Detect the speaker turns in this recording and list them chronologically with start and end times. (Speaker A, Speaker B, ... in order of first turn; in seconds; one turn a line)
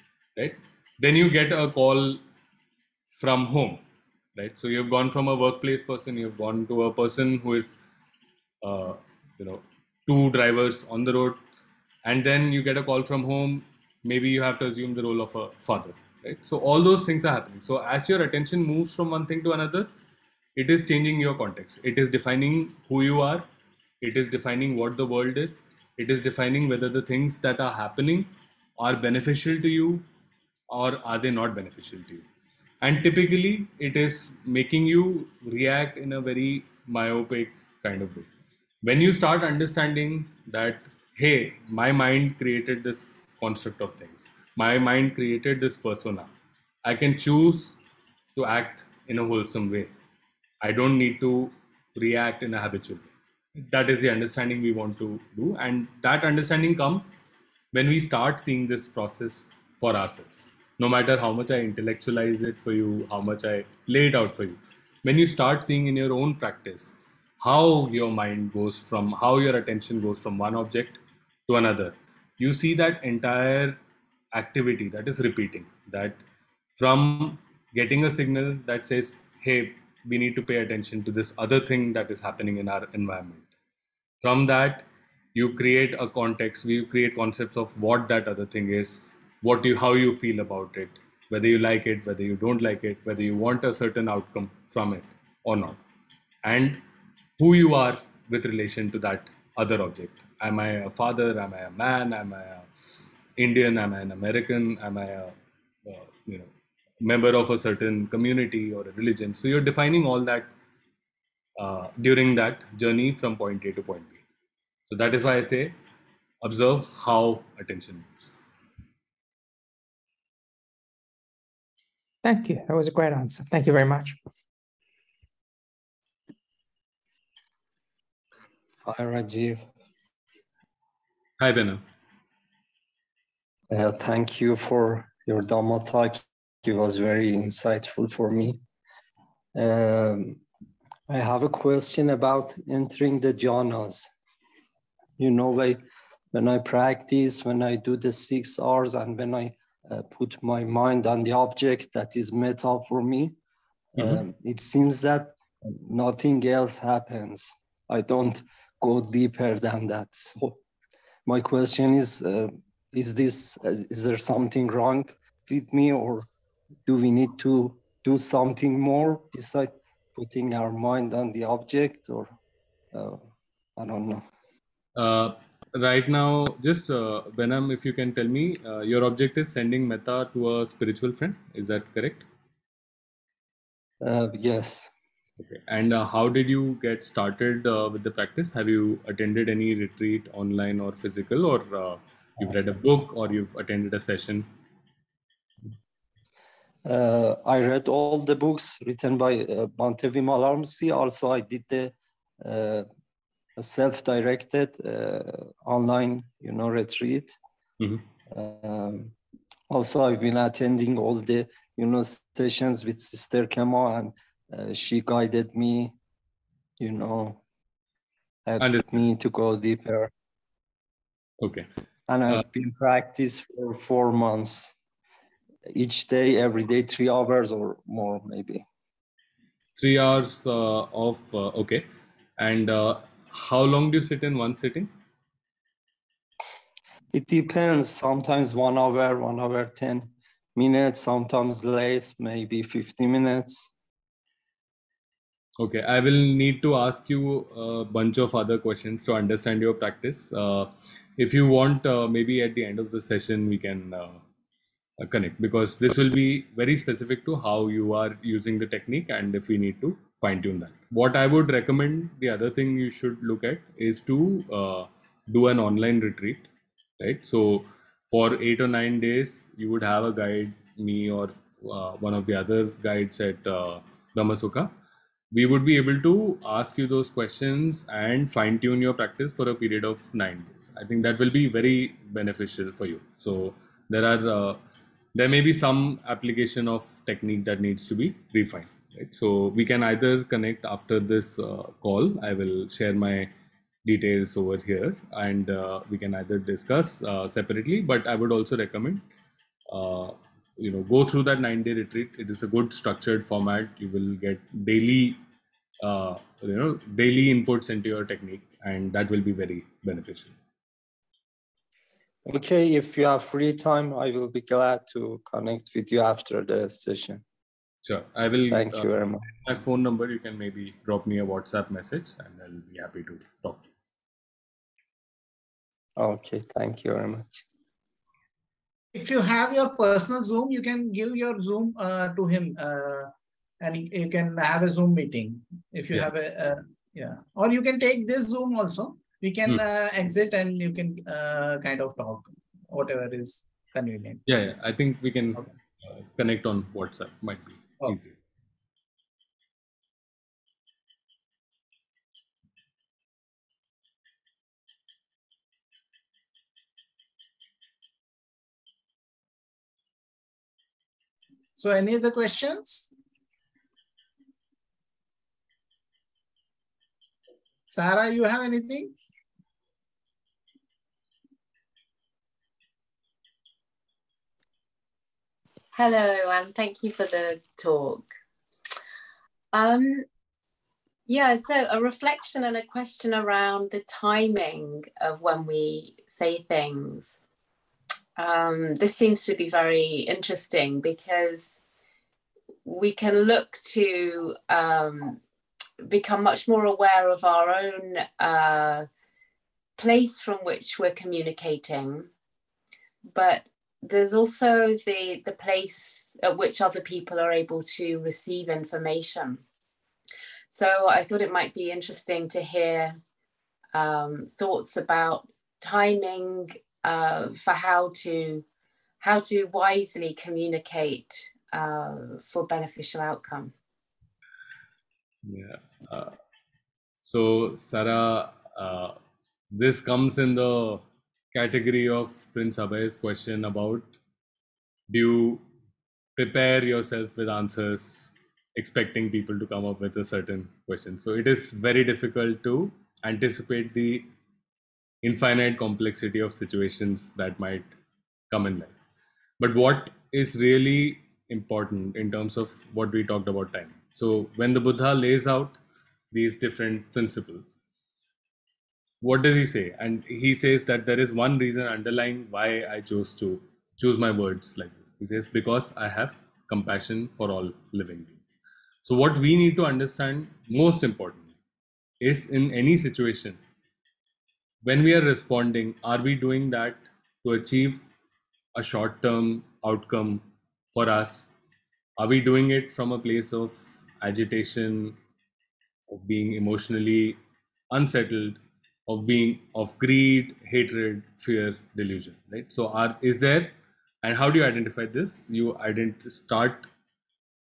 Speaker A: 0.3-2.2
Speaker A: 3.1-3.8
Speaker A: 4.3-7.8
Speaker A: 8.6-11.4
Speaker A: 12.0-19.9
Speaker A: 20.6-23.5
Speaker A: 24.0-30.0
Speaker A: 30.7-32.2
Speaker A: 32.8-38.3
Speaker A: 38.8-46.3
Speaker A: 46.8-47.8
Speaker A: 48.4-49.9
Speaker A: 50.6-57.1
Speaker A: 57.7-73.8
Speaker A: 74.3-76.2
Speaker A: 76.8-83.5
Speaker A: 84.2-95.8
Speaker A: 96.4-96.8
Speaker A: 97.4-102.7
Speaker A: 103.4-106.5
Speaker A: 107.0-110.5
Speaker A: 111.6-114.2
Speaker A: 114.9-115.8
Speaker A: 116.4-118.4
Speaker B: 122.2-124.2
Speaker C: 128.8-129.6
Speaker A: 131.4-131.8
Speaker C: 133.7-138.6
Speaker C: 139.5-140.4
Speaker C: 141.1-144.1
Speaker C: 145.2-145.8
Speaker C: 146.3-153.3
Speaker C: 153.9-160.6
Speaker C: 161.2-166.3
Speaker C: 166.8-172.3
Speaker C: 172.9-174.2
Speaker A: 174.9-182.2
Speaker C: 184.0-184.9
Speaker A: 185.4-194.5
Speaker C: 196.8-202.9
Speaker C: 203.6-207.3
Speaker C: 208.3-209.1
Speaker C: 209.7-215.9
Speaker C: 216.8-217.4
Speaker C: 218.4-220.1
Speaker A: 218.6-219.0
Speaker A: 221.4-221.7
Speaker C: 222.1-224.7
Speaker C: 225.7-228.6
Speaker A: 229.8-231.8
Speaker A: 232.4-234.9
Speaker C: 237.1-243.7
Speaker A: 245.6-254.2
Speaker A: 255.0-274.7
Speaker A: 275.3-284.6
Speaker A: 285.1-293.3
Speaker A: 293.8-299.0
Speaker A: 299.7-305.2
Speaker A: 305.8-310.3
Speaker C: 312.2-317.2
Speaker A: 317.8-323.7
Speaker C: 318.5-319.3
Speaker C: 326.0-327.4
Speaker D: 328.9-344.2
Speaker A: 344.3-348.1
Speaker D: 361.6-362.9
Speaker D: 367.7-368.9
Speaker E: 375.7-378.1
Speaker E: 379.5-380.0
Speaker E: 381.1-387.2
Speaker E: 388.2-391.6
Speaker E: 392.6-395.2
Speaker E: 395.8-398.9
Speaker E: 399.8-402.1
Speaker E: 403.1-409.4
Speaker E: 410.5-413.0
Speaker E: 413.7-418.4
Speaker E: 419.0-423.5
Speaker A: 425.2-426.1
Speaker A: 427.0-429.0
Speaker A: 429.5-434.0
Speaker A: 434.9-435.4
Speaker A: 436.2-444.1
Speaker A: 445.0-447.7
Speaker A: 448.3-448.8
Speaker A: 449.4-455.6
Speaker A: 456.1-457.5
Speaker A: 459.0-471.3
Speaker A: 472.0-473.4
Speaker A: 474.6-477.9
Speaker A: 478.5-481.3
Speaker A: 482.0-485.0
Speaker A: 485.9-487.2
Speaker A: 487.7-496.7